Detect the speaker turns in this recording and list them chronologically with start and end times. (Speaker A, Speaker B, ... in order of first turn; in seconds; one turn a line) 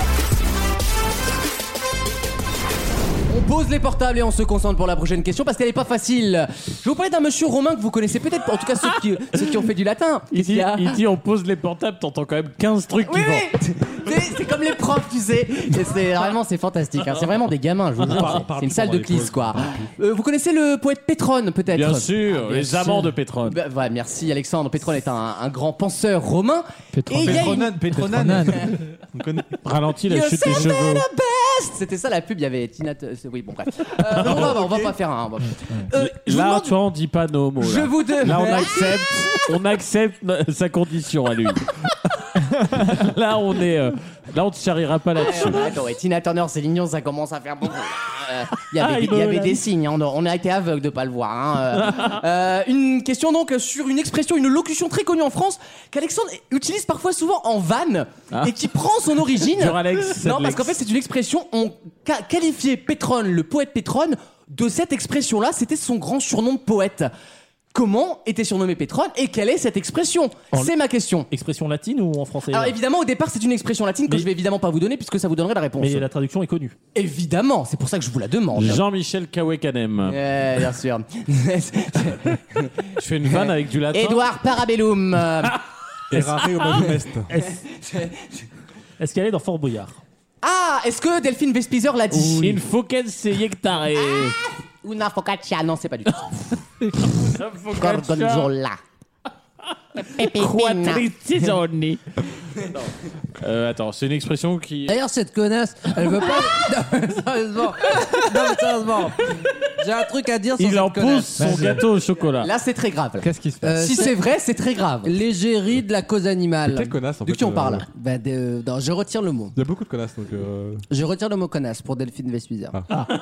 Speaker A: 3.3-11.0
Speaker B: 10.3-13.5
Speaker A: 13.1-27.7
Speaker C: 18.0-19.9
Speaker B: 18.1-18.5
Speaker B: 21.7-23.6
Speaker D: 26.9-28.7
Speaker E: 27.1-29.6
Speaker B: 29.6-31.1
Speaker A: 30.1-36.8
Speaker E: 34.1-35.0
Speaker B: 34.2-34.6
Speaker B: 35.9-41.7
Speaker A: 37.6-39.0
Speaker B: 42.7-45.7
Speaker A: 45.2-67.1
Speaker F: 48.8-49.6
Speaker B: 51.8-52.2
Speaker B: 59.4-60.7
Speaker A: 67.7-71.3
Speaker F: 71.3-72.8
Speaker A: 72.5-76.1
Speaker F: 75.8-76.8
Speaker A: 77.0-78.8
Speaker B: 78.5-80.2
Speaker A: 80.1-85.6
Speaker B: 83.0-84.2
Speaker C: 86.1-87.3
Speaker F: 86.1-87.6
Speaker A: 87.8-88.3
Speaker F: 89.0-90.0
Speaker A: 90.4-92.6
Speaker B: 92.1-94.4
Speaker A: 94.0-96.3
Speaker B: 96.9-98.5
Speaker A: 97.8-98.8
Speaker A: 100.0-101.0
Speaker B: 100.0-105.0
Speaker G: 104.9-111.4
Speaker B: 110.6-112.5
Speaker D: 111.4-111.8
Speaker A: 112.4-113.3
Speaker D: 113.2-114.0
Speaker G: 113.6-114.2
Speaker A: 113.8-115.2
Speaker G: 115.0-117.0
Speaker C: 116.7-117.9
Speaker A: 117.2-117.8
Speaker G: 117.9-119.6
Speaker C: 119.5-120.8
Speaker G: 120.9-122.8
Speaker C: 122.7-123.0